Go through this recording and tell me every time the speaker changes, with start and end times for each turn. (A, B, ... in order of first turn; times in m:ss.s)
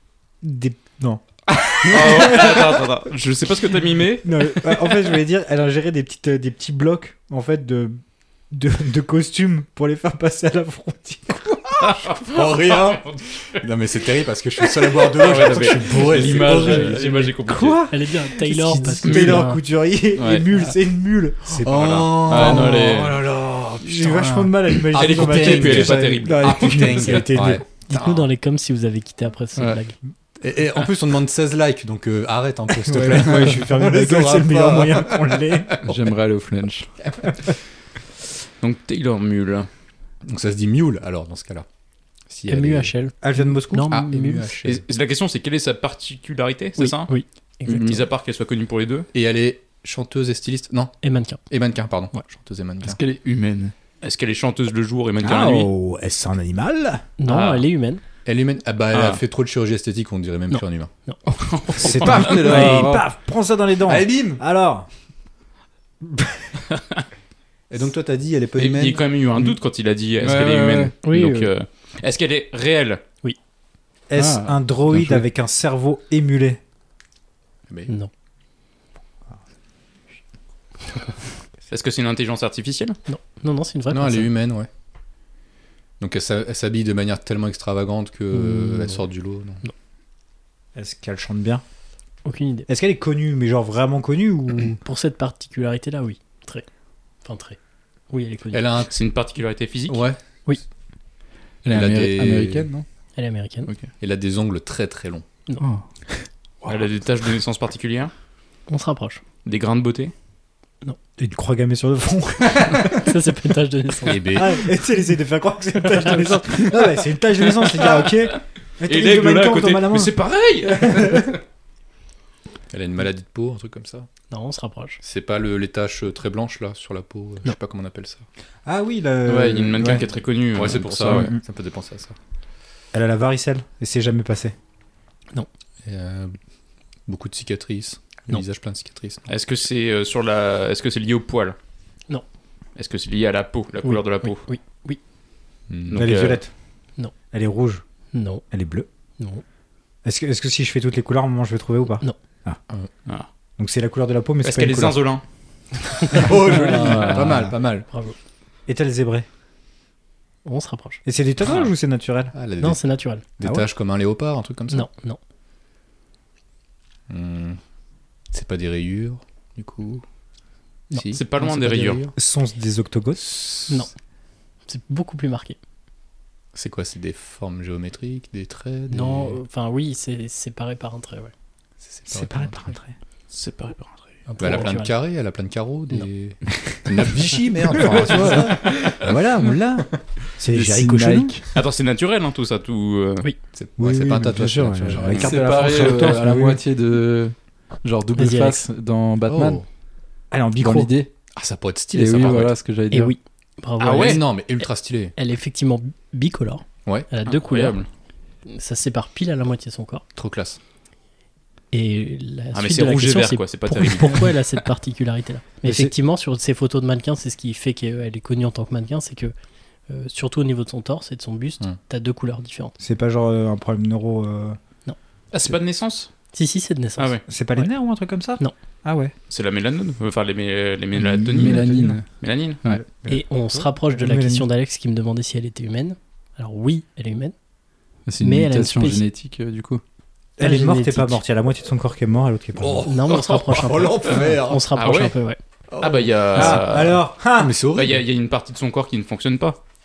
0:00.4-0:01.2 A
0:01.8-0:02.9 A
0:01.8-0:04.4 B
0:04.2-0:08.0 A
0:08.5-0:11.5 A
0:11.8-0:13.2 B
0:12.2-0:17.3 C
0:15.1-0:17.9 B
0:17.4-0:22.8 A
0:17.9-0:19.6 D
0:19.0-0:19.5 B
0:20.1-0:20.5 B
0:21.5-0:28.3 C
0:21.7-0:23.3 B
0:23.8-0:27.6 A
0:24.9-0:26.8 B
0:27.9-0:30.0 D
0:30.4-0:36.0 C
0:32.8-0:35.8 A
0:35.8-0:36.9 E
0:37.0-0:37.3 C
0:38.6-0:39.7 B
0:40.2-0:41.6 C
0:42.3-0:42.9 C
0:42.5-0:44.5 D
0:43.2-0:43.9 A
0:43.9-0:44.8 C
0:44.6-0:47.1 B
0:46.8-0:48.0 D
0:47.6-0:49.1 B
0:49.1-0:53.0 C
0:51.0-0:51.4 D
0:52.8-0:53.7 E
0:54.0-0:55.7 B
0:55.2-0:57.0 A
0:57.2-0:58.0 D
0:57.2-0:57.7 B
0:58.2-1:00.9 C
0:58.9-0:59.2 B
1:00.5-1:01.2 D
1:01.5-1:02.1 B
1:01.8-1:03.1 E
1:01.8-1:04.9 A
1:03.9-1:04.4 C
1:06.0-1:06.5 A
1:06.7-1:07.0 B
1:07.7-1:09.0 C
1:08.6-1:13.0 B
1:10.2-1:10.9 E
1:11.0-1:11.5 D
1:14.1-1:16.6 A
1:14.2-1:15.2 E
1:21.7-1:23.0 B
1:23.1-1:24.3 D
1:23.9-1:24.7 C
1:26.0-1:29.6 C
1:28.3-1:29.0 D
1:30.8-1:31.6 A
1:32.2-1:32.7 D
1:32.7-1:34.8 A
1:34.8-1:36.6 D
1:37.2-1:37.6 D
1:38.1-1:38.6 D
1:38.5-1:38.9 C
1:38.8-1:40.1 B
1:39.9-1:40.2 C
1:41.6-1:42.8 E
1:41.7-1:42.7 C
1:43.2-1:43.7 D
1:44.0-1:45.2 C
1:45.6-1:45.8 E
1:46.7-1:48.1 B
1:48.7-1:49.2 D
1:49.4-1:50.1 B
1:51.2-1:53.1 A
1:52.9-1:54.4 D
1:54.1-1:54.7 C
1:54.3-2:01.4 A
1:55.8-1:56.6 D
1:58.9-2:01.3 B
2:02.7-2:04.1 C
2:04.3-2:05.0 D
2:05.0-2:08.2 C
2:08.6-2:10.1 A
2:09.2-2:11.3 B
2:10.6-2:12.2 C
2:11.1-2:11.4 A
2:12.9-2:14.6 A
2:15.8-2:16.3 C
2:17.1-2:19.3 C
2:19.3-2:21.6 B
2:22.8-2:24.4 B
2:23.8-2:25.0 D
2:25.7-2:26.1 C
2:25.9-2:26.4 B
2:26.0-2:26.5 A
2:27.3-2:27.8 A
2:28.1-2:28.4 D
2:28.5-2:28.9 A
2:30.0-2:32.6 A
2:33.6-2:35.0 A
2:34.4-2:35.2 B
2:36.0-2:37.2 D
2:36.1-2:37.9 C
2:36.2-2:37.6 A
2:38.7-2:39.3 A
2:40.4-2:41.0 D
2:41.0-2:42.3 A
2:42.3-2:42.8 C
2:42.6-2:43.2 D
2:43.4-2:44.9 C
2:43.4-2:43.7 A
2:44.7-2:45.2 D
2:47.1-2:47.6 C
2:48.3-2:50.0 C
2:50.9-2:52.1 C
2:51.1-2:52.1 B
2:52.2-2:53.2 A
2:53.2-2:53.8 C
2:54.7-2:55.6 D
2:56.5-2:59.4 C
2:58.9-3:01.3 D
3:01.8-3:02.6 C
3:02.1-3:02.9 A
3:03.3-3:04.4 B
3:04.3-3:05.0 D
3:04.4-3:09.9 C
3:07.8-3:11.4 A
3:10.5-3:11.5 E
3:11.5-3:13.3 B
3:13.5-3:16.0 C
3:13.8-3:16.6 A
3:14.9-3:19.6 E
3:18.2-3:18.7 D
3:19.3-3:19.6 C
3:20.3-3:20.9 A
3:20.6-3:21.1 E
3:21.4-3:22.6 C
3:21.9-3:23.2 E
3:22.2-3:22.5 B
3:22.9-3:27.8 D
3:23.8-3:24.2 B
3:23.9-3:25.2 C
3:27.3-3:27.9 B
3:28.5-3:30.0 D
3:30.2-3:30.6 C
3:31.7-3:39.3 D
3:32.5-3:34.5 B
3:35.6-3:35.9 A
3:39.9-3:42.8 D
3:42.8-3:44.6 A
3:45.3-3:46.1 B
3:46.3-3:47.7 D
3:47.0-3:47.2 B
3:47.3-3:49.1 A
3:49.3-3:52.6 B
3:51.0-3:52.1 E
3:51.4-3:52.0 A
3:52.7-3:54.5 A
3:53.1-3:57.3 D
3:58.1-3:59.8 E
3:58.2-3:59.0 D
4:00.4-4:02.9 A
4:00.4-4:01.2 D
4:02.6-4:04.7 C
4:02.9-4:05.4 D
4:04.7-4:05.2 B
4:05.7-4:06.8 C
4:05.8-4:07.0 B
4:06.4-4:07.6 A
4:07.4-4:08.0 C
4:07.7-4:09.6 B